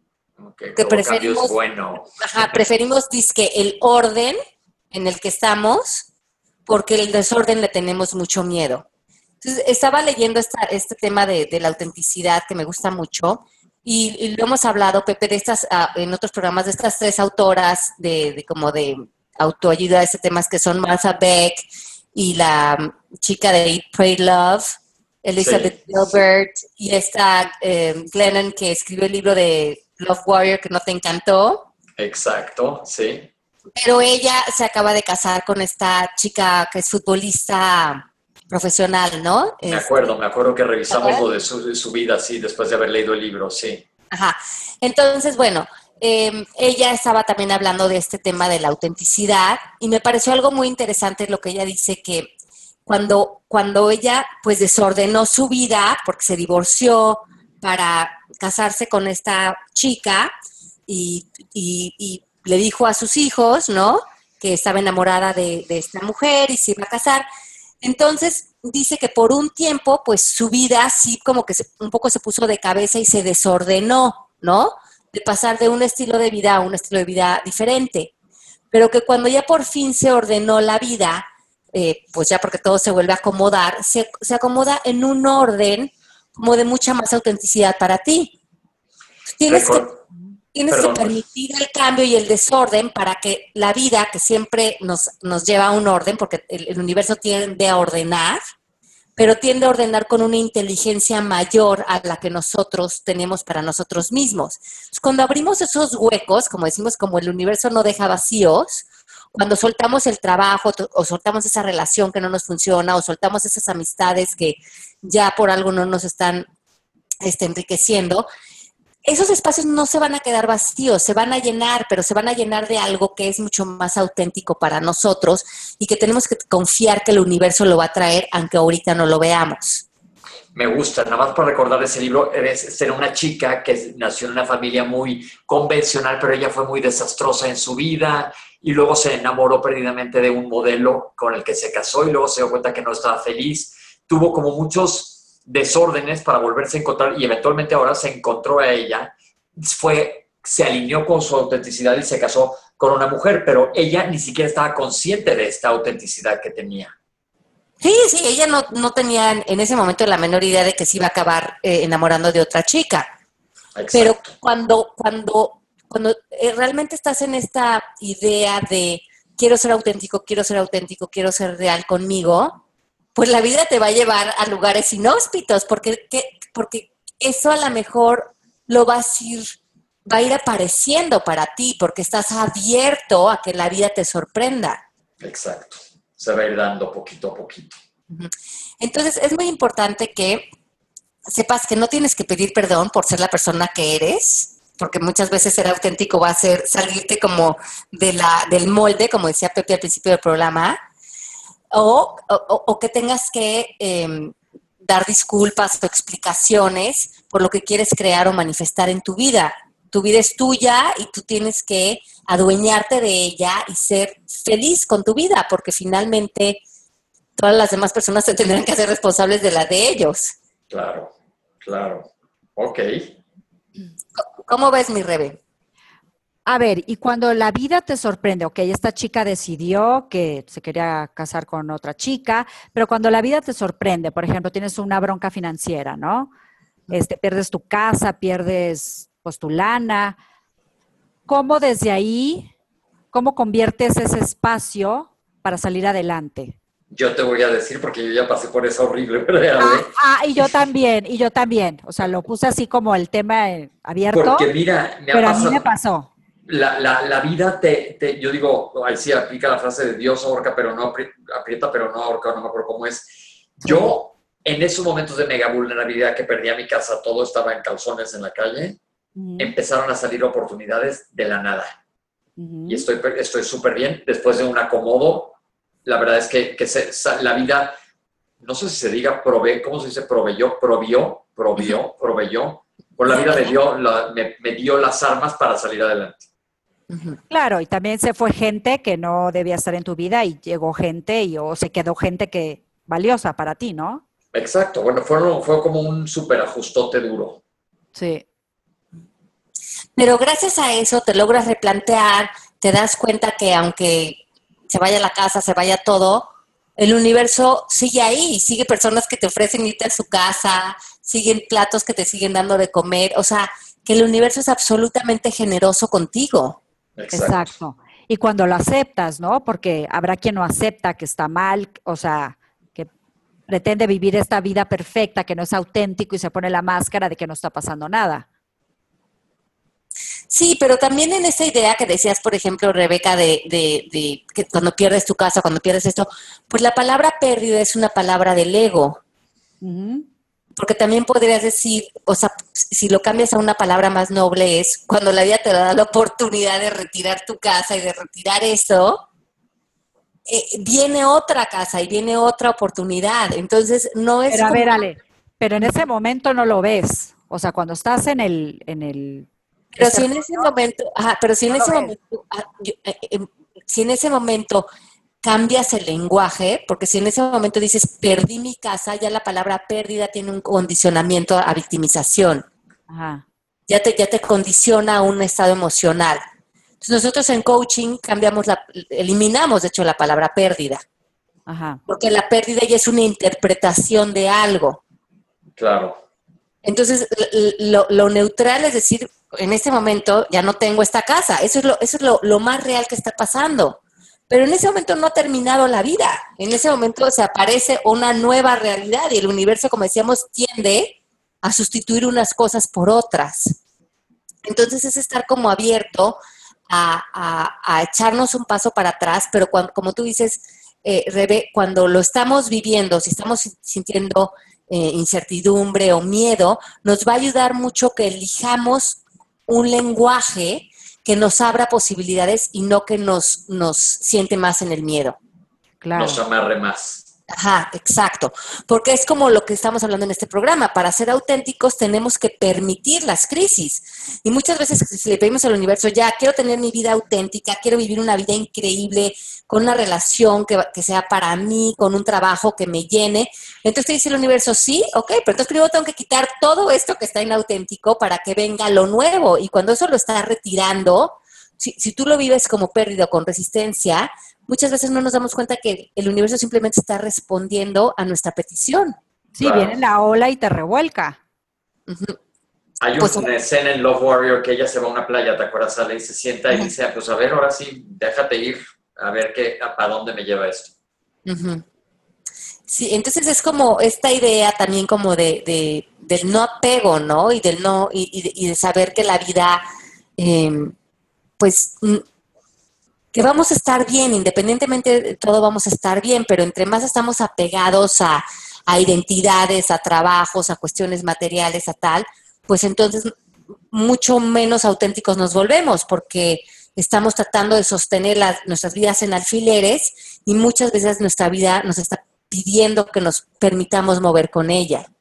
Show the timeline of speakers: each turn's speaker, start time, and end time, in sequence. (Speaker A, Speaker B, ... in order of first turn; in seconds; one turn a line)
Speaker A: 0.4-2.1
Speaker B: 0.8-1.5
Speaker B: 2.2-4.3
Speaker B: 4.9-6.1
Speaker B: 6.7-8.8
Speaker B: 9.4-24.7
Speaker B: 25.2-31.7
Speaker A: 25.4-26.2
Speaker A: 32.0-33.3
Speaker B: 33.8-39.9
Speaker A: 39.6-43.8
Speaker B: 40.9-41.3
Speaker B: 44.1-52.3
Speaker B: 52.9-60.3
Speaker B: 60.9-67.2
Speaker B: 67.8-78.1
Speaker B: 78.7-88.3
Speaker B: 89.3-89.9
Speaker A: 89.5-90.0
Speaker B: 90.5-98.4
Speaker A: 90.7-91.2
Speaker B: 99.2-116.5
Speaker B: 117.2-118.2
Speaker B: 119.0-129.8
Speaker A: 130.5-156.9
Speaker B: 157.8-163.1
Speaker A: 163.7-164.3
Speaker B: 163.9-172.6
Speaker B: 173.1-184.8
Speaker A: 185.2-187.8
Speaker B: 188.1-190.5
Speaker B: 191.2-200.8
Speaker B: 201.7-216.6
Speaker B: 217.4-220.3
Speaker A: 220.7-221.1
Speaker A: 221.6-223.1
Speaker B: 224.2-225.4
Speaker C: 226.4-236.3
Speaker C: 236.9-240.2
Speaker C: 241.3-242.5
Speaker C: 243.1-246.6
Speaker A: 246.9-250.5
Speaker C: 249.6-254.5
Speaker A: 254.1-255.7
Speaker C: 255.1-256.1
Speaker A: 256.4-263.1
Speaker C: 263.6-263.9
Speaker A: 263.6-268.8
Speaker C: 269.1-269.5
Speaker A: 269.4-271.7
Speaker C: 272.4-272.9
Speaker A: 272.7-275.3
Speaker A: 275.8-277.7
Speaker A: 278.4-286.2
Speaker B: 283.1-283.5
Speaker B: 286.9-287.2
Speaker C: 287.3-294.0
Speaker A: 294.3-297.4
Speaker C: 297.9-298.2
Speaker B: 299.9-316.6
Speaker A: 316.9-317.5
Speaker C: 317.1-322.9
Speaker C: 323.5-328.2
Speaker B: 330.3-339.0
Speaker C: 339.6-340.0
Speaker B: 340.6-349.0
Speaker B: 350.3-354.8
Speaker C: 354.3-360.5
Speaker B: 359.7-364.6
Speaker C: 361.5-361.9
Speaker B: 365.2-372.4
Speaker C: 372.9-373.2
Speaker B: 373.7-376.2
Speaker B: 376.8-380.8
Speaker C: 381.5-381.8
Speaker B: 381.9-384.8
Speaker A: 385.6-386.0
Speaker B: 386.6-403.6
Speaker B: 404.4-406.2
Speaker B: 406.7-425.1
Speaker C: 425.8-426.2
Speaker A: 426.0-427.0
Speaker B: 427.3-458.9
Speaker C: 459.4-461.2
Speaker A: 459.4-459.7
Speaker B: 461.9-462.2
Speaker A: 462.8-470.7
Speaker B: 463.0-463.3
Speaker B: 471.2-471.6
Speaker B: 472.7-479.6
Speaker B: 480.2-480.7
Speaker B: 481.4-482.0
Speaker B: 483.1-493.1
Speaker B: 493.7-504.9